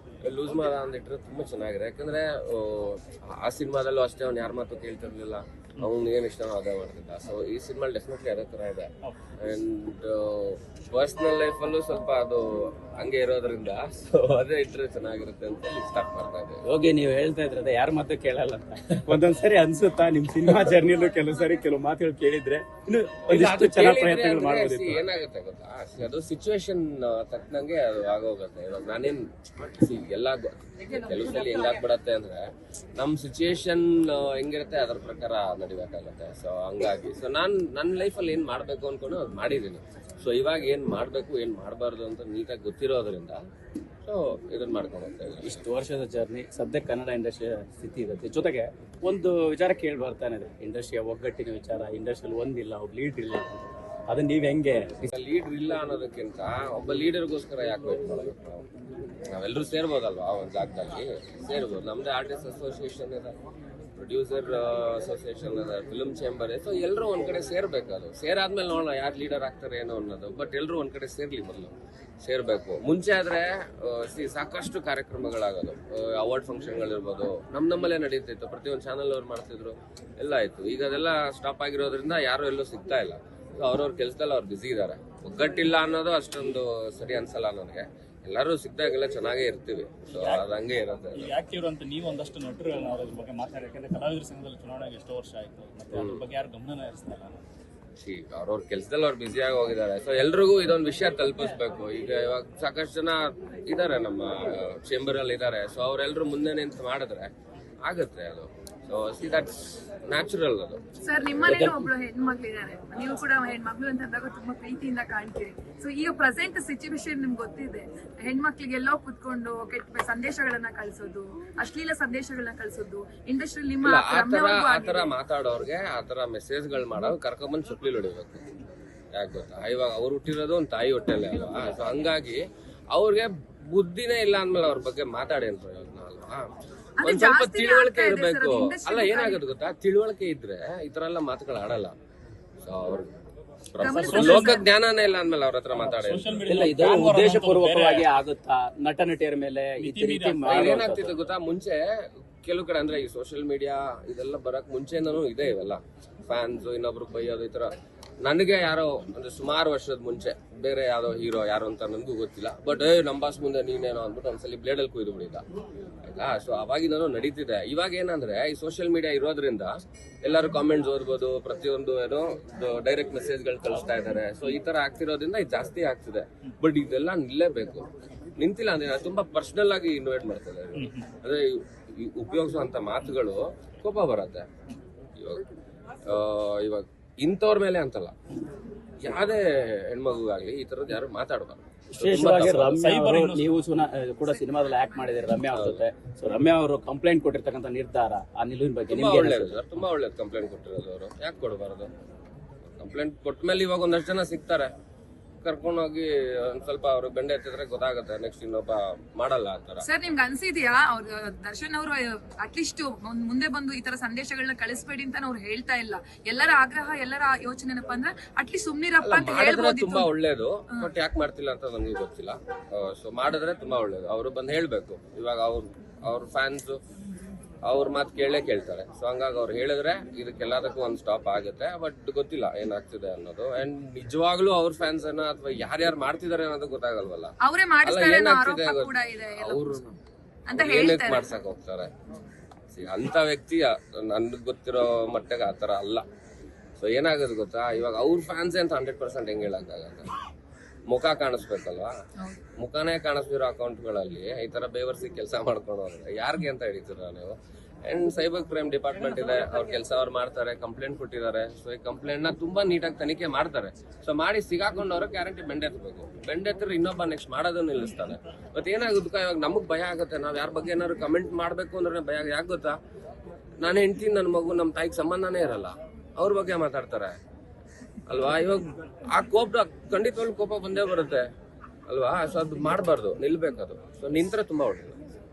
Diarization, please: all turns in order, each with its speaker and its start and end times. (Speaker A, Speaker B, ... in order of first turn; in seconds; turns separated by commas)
Speaker A: 0.2-16.6, Speaker B: 16.6-25.0, Speaker A: 23.3-43.4, Speaker A: 44.0-45.6, Speaker B: 45.4-55.1, Speaker A: 55.1-58.6, Speaker A: 59.3-63.4, Speaker A: 64.0-91.3, Speaker C: 90.2-90.5, Speaker C: 91.1-97.3, Speaker A: 95.9-96.2, Speaker A: 98.0-107.3, Speaker A: 107.8-111.8, Speaker D: 111.0-125.1, Speaker B: 111.4-111.7, Speaker A: 123.8-128.5, Speaker A: 129.1-136.5, Speaker D: 137.0-139.4, Speaker A: 137.0-141.9, Speaker A: 142.6-143.1, Speaker A: 143.7-146.9, Speaker D: 143.8-144.7, Speaker C: 143.9-144.6, Speaker C: 145.7-148.1, Speaker B: 146.4-151.2, Speaker C: 149.8-150.8, Speaker A: 150.4-165.4, Speaker A: 166.0-169.7, Speaker A: 170.2-177.9, Speaker A: 178.4-184.5, Speaker C: 180.8-181.0, Speaker A: 185.2-185.4, Speaker A: 186.0-188.1, Speaker A: 189.0-192.8, Speaker B: 191.9-199.6, Speaker C: 192.8-193.5, Speaker A: 195.5-195.8, Speaker A: 198.9-201.9, Speaker A: 202.8-204.7, Speaker A: 205.4-209.8, Speaker D: 209.8-220.1, Speaker A: 219.0-226.8, Speaker A: 227.6-237.3, Speaker D: 237.4-239.7, Speaker A: 237.8-239.9, Speaker D: 240.5-241.2, Speaker A: 240.5-241.9, Speaker A: 242.7-246.0, Speaker A: 246.8-250.1, Speaker A: 250.9-251.9, Speaker A: 252.6-272.7, Speaker A: 273.6-277.1, Speaker A: 278.1-281.2, Speaker A: 281.9-285.0